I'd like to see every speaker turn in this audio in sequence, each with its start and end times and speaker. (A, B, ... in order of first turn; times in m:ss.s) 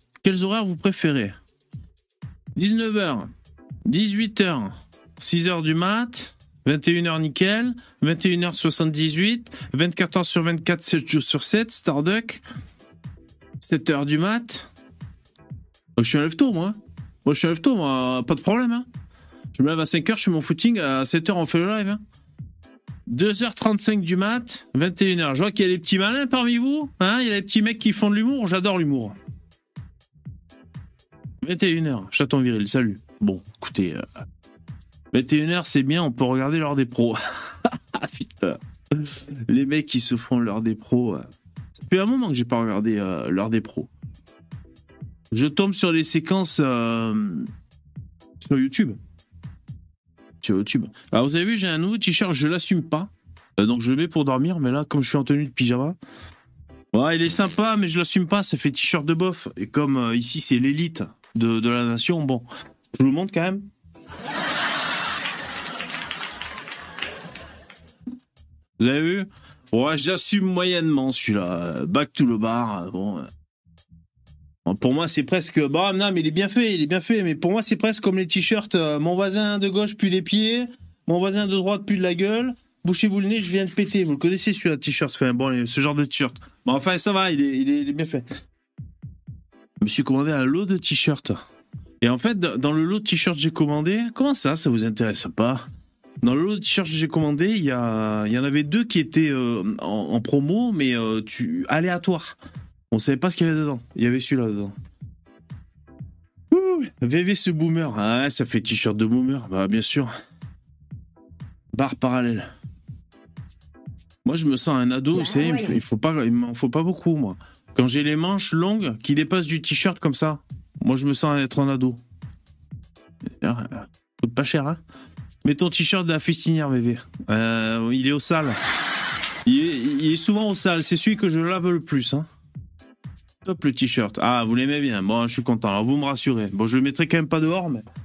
0:00.2-0:01.3 A
0:02.6-0:03.3 A
0:03.9-0:12.4 A
0:13.6-0:14.7 A
0:16.0-0:18.9 A
0:19.6-0:22.0 A
0:23.1-0:29.2 A
0:31.4-0:34.0 A
0:35.1-0:41.3 A
0:41.8-0:43.9 A
0:45.3-0:47.5 A
0:48.4-0:49.0 A
0:50.4-0:56.0 A
0:56.9-1:03.6 A
1:08.8-1:13.3 A
1:14.6-1:28.2 A
1:29.8-1:31.4 A
1:32.0-1:35.6 A
1:36.2-1:42.4 A
1:42.9-1:44.7 A
1:46.5-1:50.1 A
1:51.7-1:52.5 A
1:54.2-2:02.0 A
2:03.4-2:04.8 A
2:05.4-2:08.6 A
2:09.4-2:12.3 A
2:13.4-2:17.8 A